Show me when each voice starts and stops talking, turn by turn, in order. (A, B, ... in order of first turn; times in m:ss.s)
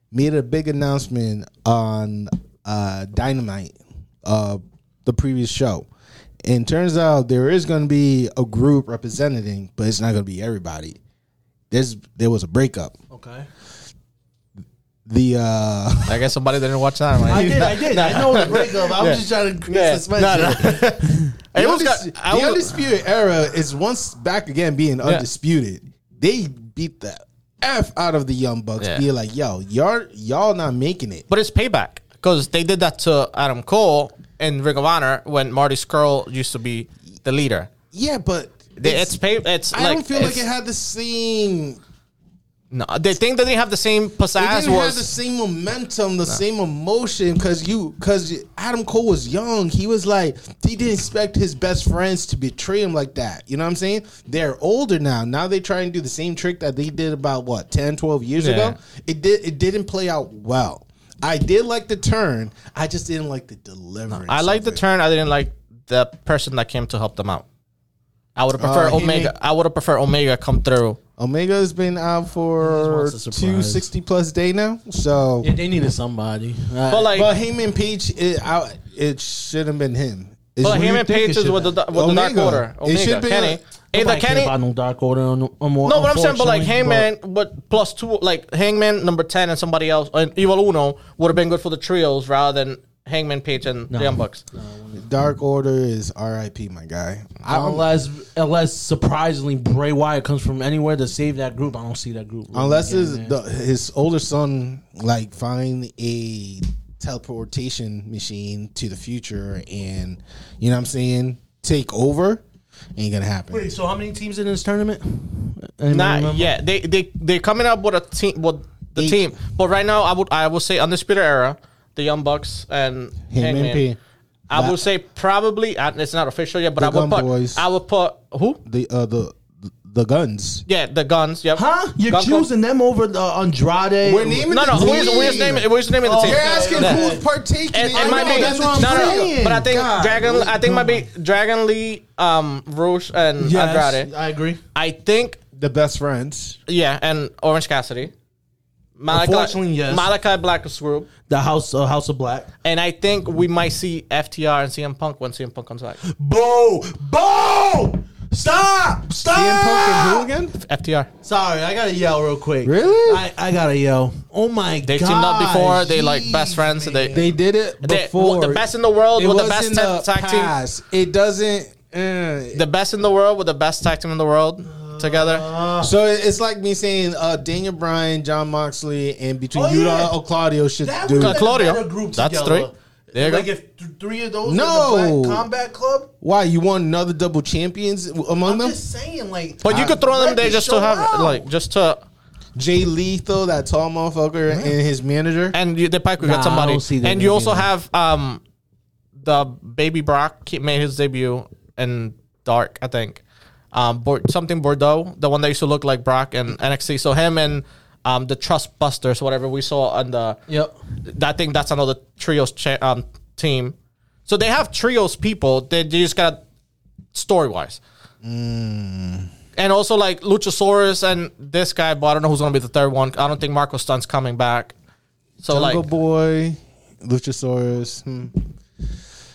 0:00.1-0:05.9 A
0:06.4-0:11.0 A
0:11.7-0:12.9 A
0:13.1-0:13.5 B
0:15.1-0:16.2 A
0:16.1-0:22.8 C
0:17.2-0:21.3 B
0:19.7-0:20.9 A
0:21.5-0:31.3 A
0:28.8-0:29.0 C
0:31.3-0:37.7 C
0:37.9-0:41.8 A
0:38.8-0:40.4 C
0:42.7-0:45.1 C
0:44.3-1:04.8 A
0:58.4-0:58.8 C
1:04.1-1:07.4 C
1:08.4-1:11.0 C
1:08.6-1:09.3 A
1:11.2-1:15.5 A
1:12.6-1:13.9 B
1:15.4-1:17.2 B
1:16.9-1:17.3 C
1:17.1-1:21.2 A
1:20.6-1:21.8 B
1:20.6-1:24.5 C
1:21.9-1:23.6 A
1:23.9-1:27.1 B
1:25.8-1:34.4 C
1:33.9-1:35.0 B
1:35.0-1:37.9 A
1:37.5-1:43.4 B
1:42.5-1:52.4 A
1:53.0-1:53.7 A
1:53.5-1:56.6 B
1:55.9-2:03.8 C
1:59.0-1:59.3 A
2:03.3-2:04.0 A
2:04.5-2:08.6 C
2:04.5-2:04.8 A
2:06.8-2:07.6 A
2:08.6-2:10.6 A
2:10.7-2:12.5 C
2:11.5-2:17.2 B
2:14.0-2:19.4 A
2:14.5-2:17.1 C
2:17.7-2:24.1 C
2:17.9-2:21.1 B
2:23.4-2:24.6 B
2:24.7-2:25.4 C
2:25.6-2:26.6 A
2:26.7-2:28.1 C
2:29.0-2:31.1 C
2:29.1-2:30.1 B
2:31.3-2:32.5 B
2:32.6-2:36.0 C
2:36.0-2:40.3 B
2:39.3-2:40.6 A
2:40.6-2:41.1 C
2:41.2-2:47.4 B
2:42.6-2:43.2 A
2:44.8-2:50.5 C
2:47.1-2:52.6 A
2:52.5-2:55.5 C
2:54.6-2:55.9 B
2:55.8-3:01.4 A
2:59.5-3:00.1 B
3:00.8-3:06.1 B
3:01.2-3:03.5 C
3:04.4-3:05.4 A
3:06.2-3:08.8 A
3:08.4-3:11.5 B
3:09.6-3:12.0 C
3:09.6-3:10.0 A
3:12.6-3:15.6 A
3:15.5-3:18.4 C
3:16.2-3:17.7 B
3:19.2-3:23.2 C
3:23.7-3:30.4 C
3:30.5-3:30.7 B
3:31.0-3:33.7 C
3:34.2-3:36.4 C
3:37.1-3:37.8 C
3:38.2-3:39.3 A
3:39.6-3:44.7 C
3:45.4-3:45.8 C
3:45.5-3:48.4 A